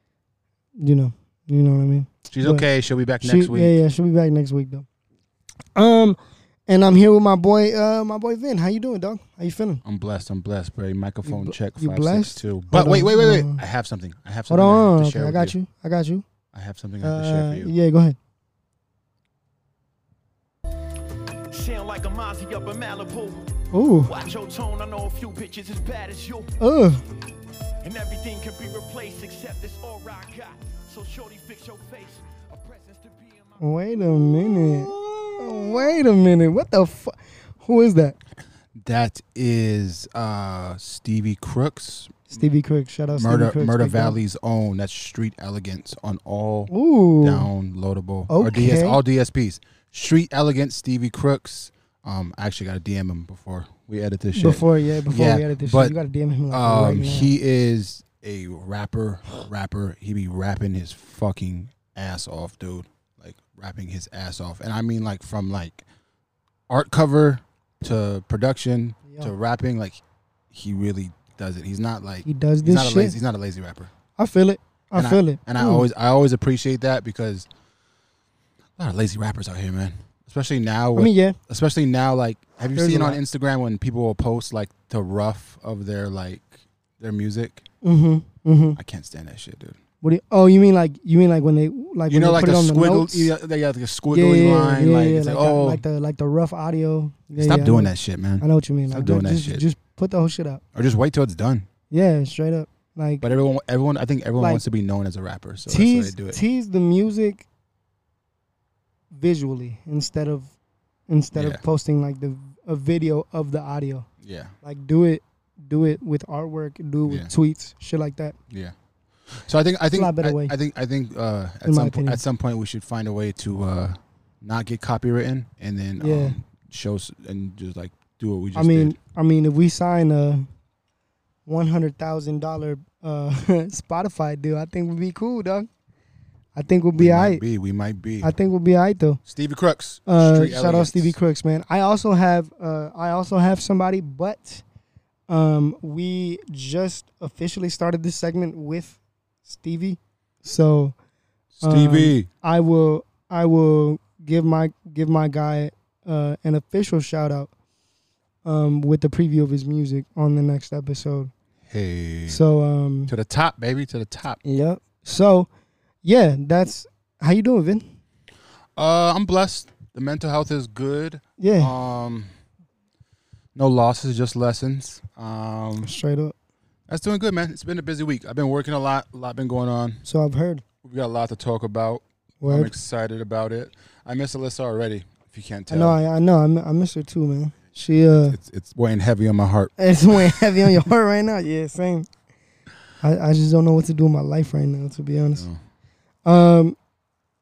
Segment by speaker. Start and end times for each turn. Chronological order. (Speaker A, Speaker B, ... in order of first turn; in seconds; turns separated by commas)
Speaker A: 0.8-2.6, Speaker B: 2.3-3.8, Speaker A: 3.2-4.8, Speaker A: 5.8-9.8, Speaker B: 9.8-15.6, Speaker A: 11.2-13.6, Speaker A: 14.5-16.2, Speaker B: 16.5-17.7, Speaker A: 17.0-18.2, Speaker C: 21.5-23.4, Speaker A: 23.7-24.1, Speaker C: 24.0-26.5, Speaker A: 26.6-27.0, Speaker C: 27.8-34.0, Speaker A: 33.6-38.2, Speaker B: 34.6-35.7, Speaker B: 38.7-42.3, Speaker A: 42.3-44.2, Speaker B: 43.1-55.9, Speaker A: 46.7-47.5, Speaker A: 48.3-49.0, Speaker A: 54.3-57.3, Speaker B: 56.5-65.8, Speaker B: 66.7-73.9, Speaker A: 72.2-73.2, Speaker A: 74.2-75.9, Speaker B: 74.9-77.5, Speaker B: 78.8-87.6, Speaker A: 80.9-81.4, Speaker A: 82.7-83.2, Speaker A: 87.8-88.8, Speaker B: 88.8-89.8, Speaker A: 90.0-93.3, Speaker B: 92.1-95.8, Speaker A: 94.1-100.6, Speaker B: 97.4-99.7, Speaker B: 100.7-101.7, Speaker A: 101.9-103.2, Speaker B: 103.2-106.4, Speaker A: 104.4-104.6, Speaker A: 105.6-107.4, Speaker A: 109.1-110.5, Speaker A: 111.1-114.1, Speaker B: 111.3-111.6, Speaker B: 114.2-114.5, Speaker A: 114.6-118.3, Speaker B: 117.0-117.3, Speaker B: 118.5-118.7, Speaker B: 119.3-128.9, Speaker A: 119.9-120.5, Speaker A: 121.6-122.2, Speaker A: 126.0-126.4, Speaker A: 128.5-130.5, Speaker A: 131.4-135.7, Speaker A: 136.6-137.4, Speaker B: 137.0-138.3, Speaker A: 138.2-139.2, Speaker B: 139.3-141.2, Speaker A: 140.1-144.6, Speaker A: 145.3-150.9, Speaker B: 151.6-152.3, Speaker A: 151.6-157.5, Speaker A: 158.4-161.3, Speaker B: 161.7-162.4, Speaker A: 162.3-163.1, Speaker B: 163.1-164.4, Speaker A: 164.4-165.5, Speaker A: 166.0-167.8, Speaker B: 168.8-172.3, Speaker A: 171.4-171.7, Speaker B: 173.5-175.9, Speaker A: 175.8-176.3, Speaker B: 176.9-180.0, Speaker A: 180.0-180.6, Speaker B: 180.8-186.0, Speaker A: 182.4-182.7, Speaker A: 185.7-188.4, Speaker B: 188.3-190.8, Speaker A: 189.8-192.1, Speaker A: 193.0-195.5, Speaker A: 196.2-196.8